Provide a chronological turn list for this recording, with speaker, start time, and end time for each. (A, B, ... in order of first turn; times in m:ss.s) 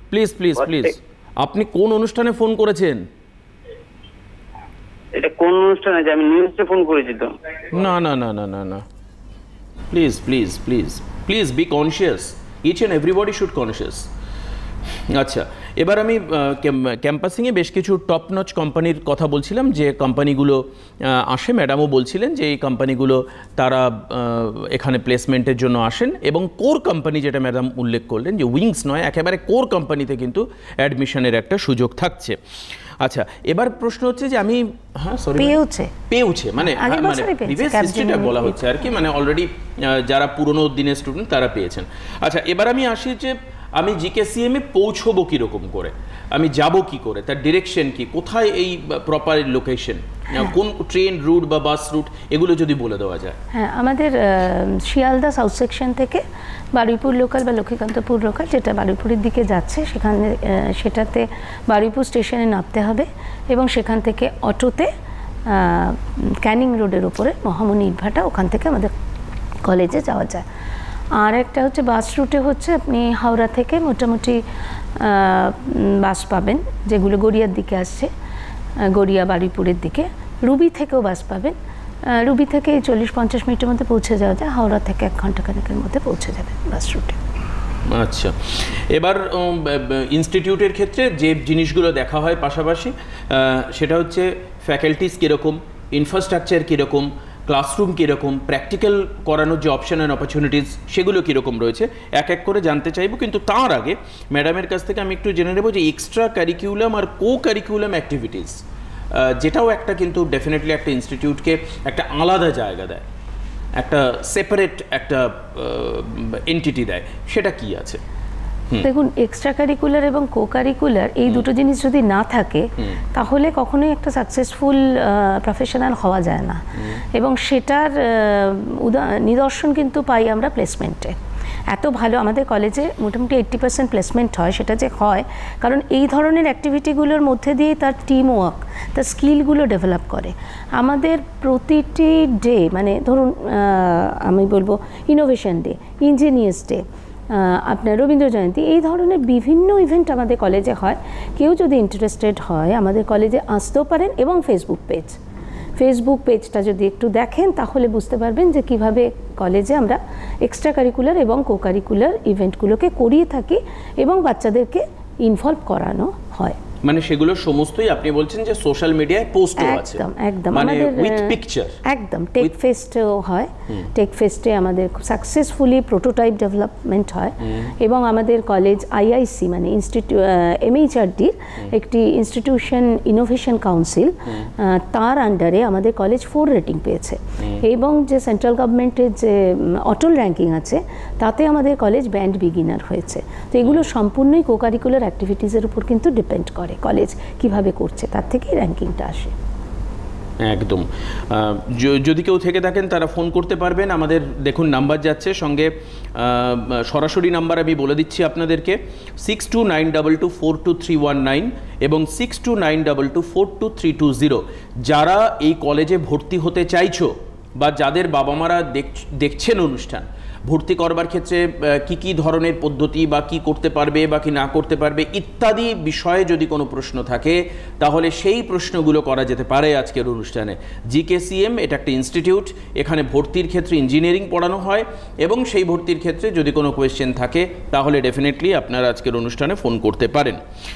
0:00.1-0:03.0 A
0:05.2-0:07.3 B
0:07.7-0:08.8 A
0:09.9-0:14.1 A
0:15.1-0:32.4 A
0:33.0-0:35.6 A
0:35.4-0:35.9 C
0:36.1-0:53.4 A
0:36.6-0:38.6 C
0:53.5-0:56.2 C
0:56.7-1:04.9 C
1:05.5-1:08.9 C
1:09.7-1:10.5 C
1:11.2-1:14.4 C
1:15.0-1:18.1 C
1:18.8-1:21.6 C
1:22.1-1:27.2 C
1:27.9-1:53.0 A
1:53.8-1:58.0 A
1:58.8-2:06.6 C
2:07.2-2:11.2 C
2:11.7-2:35.2 C
2:35.8-2:46.6 C
2:46.8-2:51.8 A
2:49.6-3:19.3 C
3:20.4-4:00.4 A